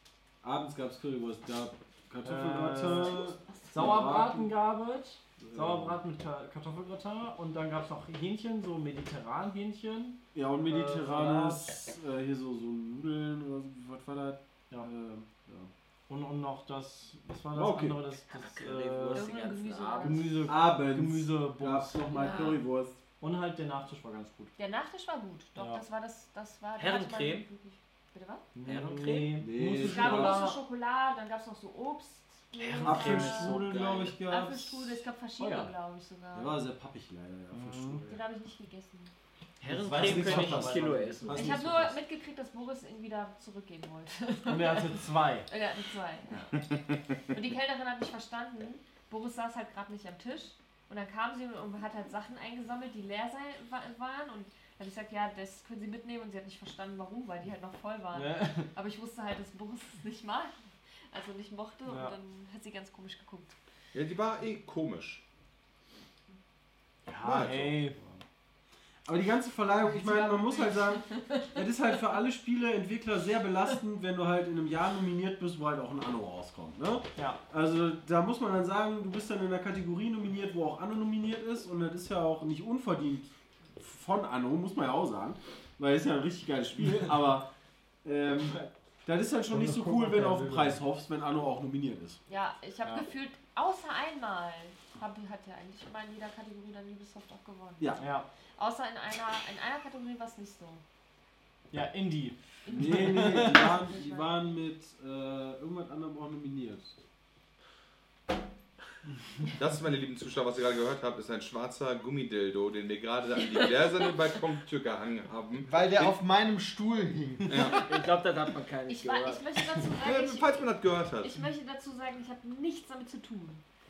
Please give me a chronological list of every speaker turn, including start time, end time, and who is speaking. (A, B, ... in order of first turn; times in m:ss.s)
0:00.4-0:04.5 A
0:02.2-0:11.7 B
0:05.4-0:06.0 A
0:10.3-0:15.7 A
0:16.1-0:19.3 B
0:17.6-0:18.0 C
0:18.3-0:20.4 D
0:19.1-0:20.4 E
0:20.0-0:22.5 B
0:20.5-0:23.0 A
0:22.1-0:22.6 E
0:23.2-0:24.5 B
0:24.6-0:28.5 E
0:25.6-0:25.8 B
0:26.8-0:27.4 D
0:28.5-0:30.6 B
0:28.6-0:29.4 D
0:29.4-0:30.5 A
0:29.8-0:33.7 E
0:32.6-0:34.2 D
0:32.8-0:35.0 A
0:34.2-0:36.6 E
0:35.4-0:35.7 B
0:36.3-0:38.2 A
0:37.5-0:38.0 B
0:38.1-0:39.1 E
0:39.6-0:41.6 D
0:39.7-0:41.6 B
0:39.7-0:42.0 A
0:41.3-1:00.5 E
0:44.4-0:45.5 B
0:58.1-0:58.7 B
1:01.1-1:03.5 E
1:01.9-1:02.1 B
1:03.9-1:05.2 C
1:07.1-1:08.0 B
1:07.2-1:08.0 C
1:09.0-1:27.5 A
1:10.0-1:11.4 E
1:28.0-1:32.2 A
1:29.5-1:30.8 F
1:32.3-1:38.0 E
1:38.0-1:38.3 B
1:38.6-1:40.8 E
1:41.7-1:43.8 B
1:42.6-1:44.5 E
1:42.7-1:46.9 A
1:49.6-1:56.1 C
1:53.5-1:53.8 E
1:55.6-1:57.7 F
1:57.5-1:57.8 C
1:57.7-1:59.4 D
1:58.9-2:03.6 E
1:59.9-2:01.5 C